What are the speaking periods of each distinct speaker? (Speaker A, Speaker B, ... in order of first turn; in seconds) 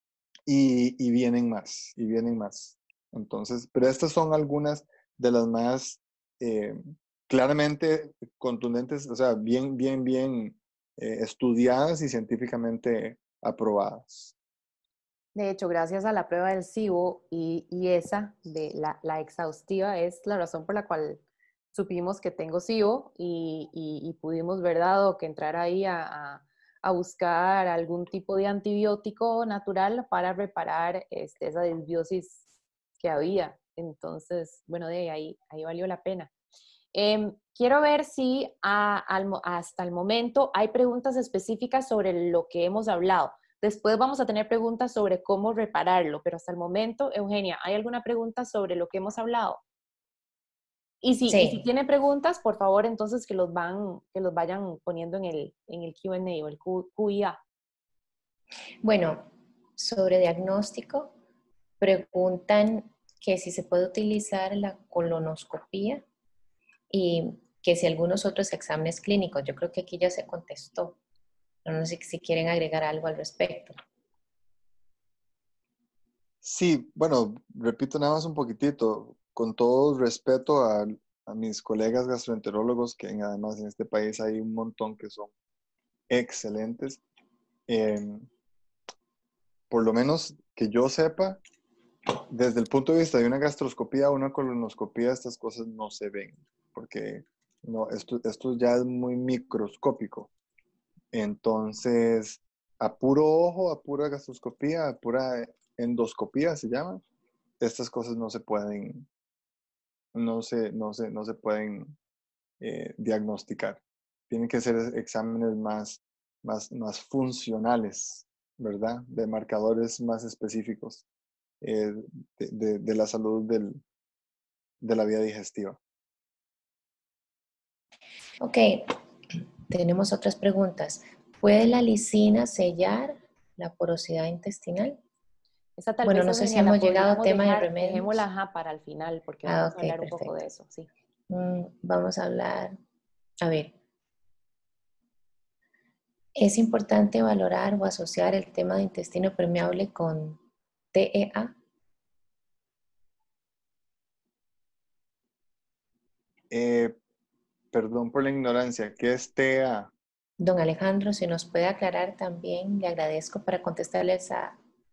Speaker A: 0.5-14.3, 76.4-85.3, 86.1-87.0, 87.7-88.3, 89.7-91.4, 92.3-100.3, 101.1-107.0, 107.6-109.1, 110.1-111.9, 112.6-121.0, 121.6-123.8, 124.8-125.8, 156.5-156.9, 157.7-159.9
Speaker B: 15.3-32.4, 33.0-36.3, 36.9-49.6, 51.0-57.4, 135.8-140.9
Speaker C: 51.3-51.6, 58.8-61.1, 61.8-66.0, 66.9-71.0, 71.6-73.8, 128.4-128.9, 129.7-135.0, 136.0-138.2, 139.4-140.3, 141.3-142.8, 143.4-143.7, 146.3-150.4, 150.9-151.5, 160.4-164.6